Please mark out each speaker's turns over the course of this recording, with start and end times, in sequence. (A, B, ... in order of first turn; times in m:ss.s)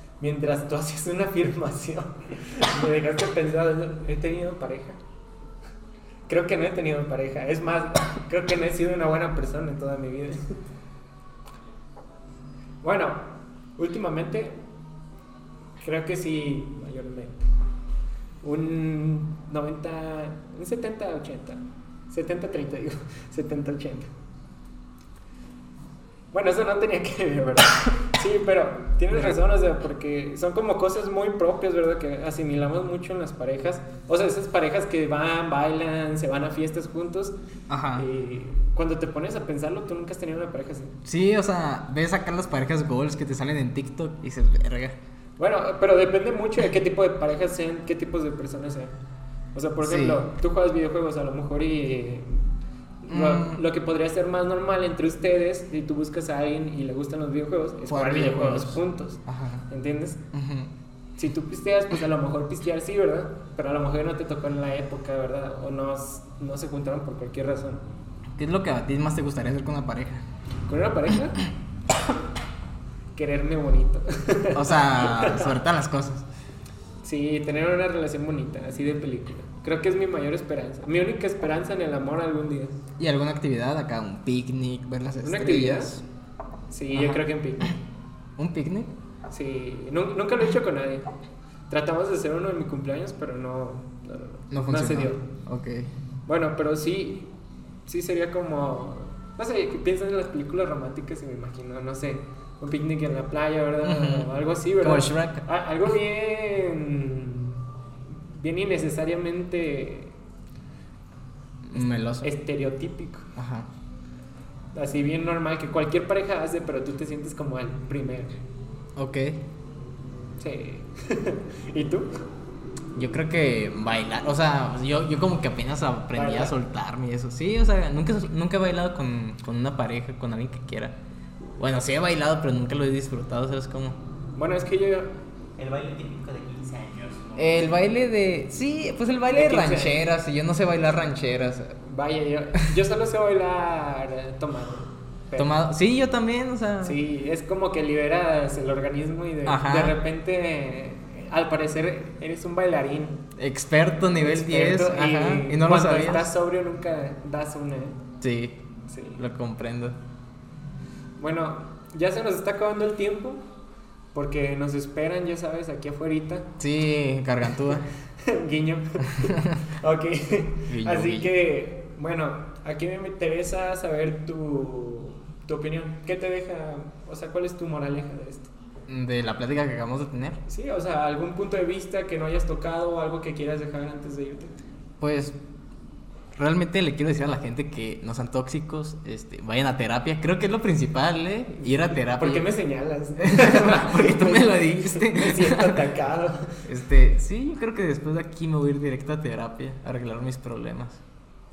0:00.2-0:05.0 A
0:06.3-0:10.6 A
0:12.8-0:13.3 A
0:13.8-0:14.6 A
0:15.8-0:17.4 A
0:18.4-0:24.1 A
0:26.3-0:37.3 A
0:29.1-0:29.4 B
0:37.7-0:38.1 B
0:38.0-0:41.0 A
0:41.0-0:45.0 B
0:45.4-0:48.9 A
0:49.6-0:52.4 A
0:49.8-0:50.2 B
0:53.0-1:00.2 A
0:53.1-0:53.6 B
0:57.9-0:59.7 B
1:00.3-1:00.7 B
1:01.2-1:07.8 A
1:08.4-1:10.2 B
1:10.7-1:11.4 A
1:13.2-1:15.6 A
1:14.6-1:16.3 B
1:17.0-1:22.8 A
1:23.0-1:26.0 B
1:25.2-1:25.9 A
1:26.7-1:27.8 A
1:26.9-1:27.2 B
1:28.4-1:28.9 B
1:29.3-1:31.1 A
1:31.7-1:35.2 A
1:34.5-1:35.9 B
1:36.3-1:37.3 A
1:37.9-1:47.6 A
1:43.8-1:45.4 B
1:48.3-1:50.2 A
1:51.7-1:52.3 B
1:51.8-1:53.3 A
1:53.4-1:53.7 B
1:54.8-1:58.3 A
1:59.0-1:59.4 B
2:00.4-2:02.1 A
2:03.0-2:11.0 B
2:06.1-2:06.6 A
2:11.6-2:14.0 B
2:14.4-2:15.1 A
2:15.6-2:17.7 C
2:17.4-2:21.8 B
2:19.3-2:20.0 A
2:21.8-2:25.6 A
2:25.4-2:27.0 B
2:26.8-2:33.2 A
2:29.5-2:30.0 B
2:33.4-2:36.3 B
2:34.2-2:38.0 A
2:38.2-2:38.6 B
2:38.9-2:39.2 A
2:39.2-2:40.0 B
2:41.2-2:43.4 A
2:44.1-2:46.5 A
2:46.6-2:47.9 B
2:47.7-2:58.5 A
2:49.2-2:49.6 B
2:50.7-2:51.3 B
2:58.9-3:00.4 B
3:00.5-3:04.6 A
3:05.0-3:05.4 B
3:06.4-3:12.5 B
3:11.8-3:16.7 A
3:13.2-3:15.8 B
3:16.6-3:21.0 B